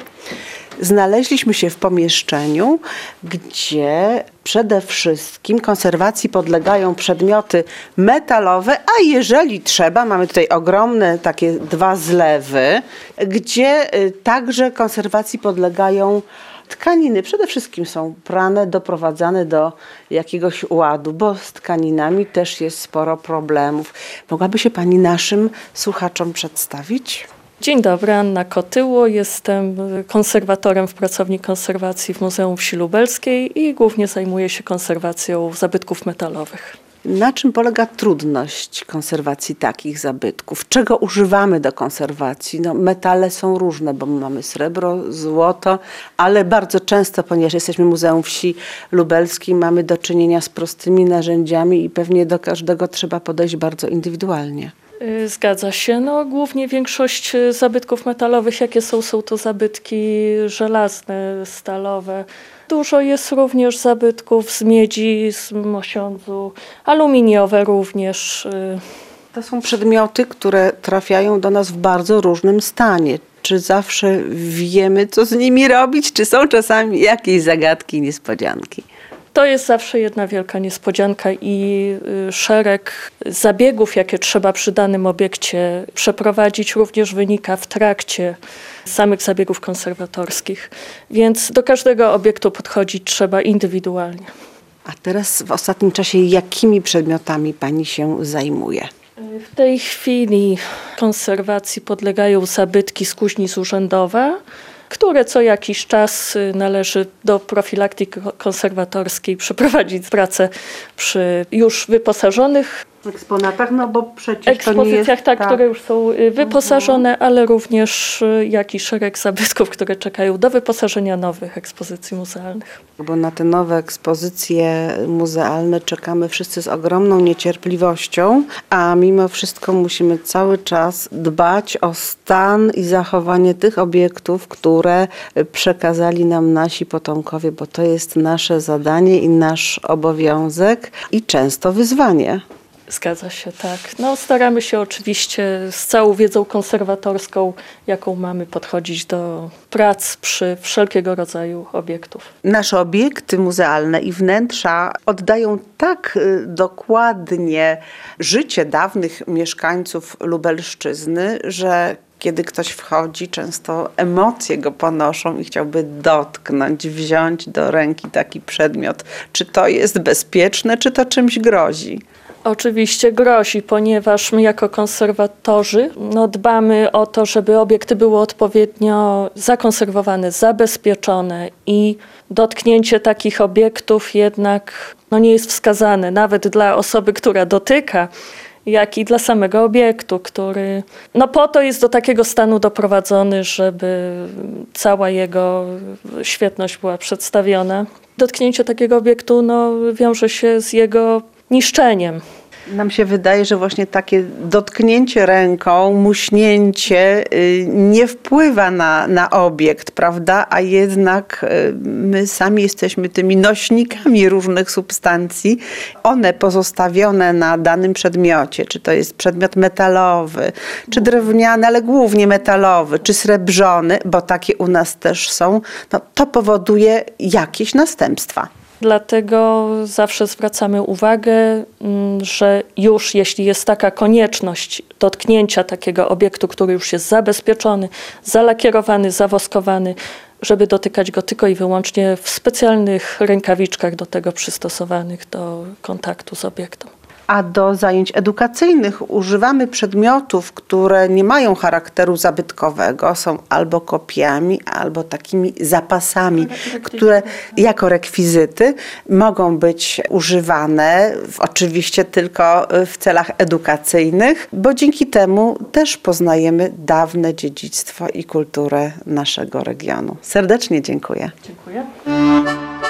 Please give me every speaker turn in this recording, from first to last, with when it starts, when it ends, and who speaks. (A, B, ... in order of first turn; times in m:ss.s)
0:00.8-0:27.3 A
0:27.6-0:36.8 B
0:37.0-0:54.7 A
0:55.0-1:08.8 B
1:09.3-1:18.9 A
1:19.3-1:34.3 B
1:34.9-1:38.9 A
1:39.2-1:44.4 B
1:44.9-1:52.8 B
1:53.0-1:55.6 A
1:54.5-2:02.8 B
1:56.4-1:57.0 A
2:03.0-2:22.4 A
2:22.9-2:32.3 B
2:32.4-2:52.0 A
2:52.4-3:08.1 B
3:08.6-3:22.2 B
3:22.7-3:48.5 A
3:48.8-4:06.9 B
4:07.3-4:31.3 A
4:16.4-4:17.4 B
4:31.4-4:31.9 B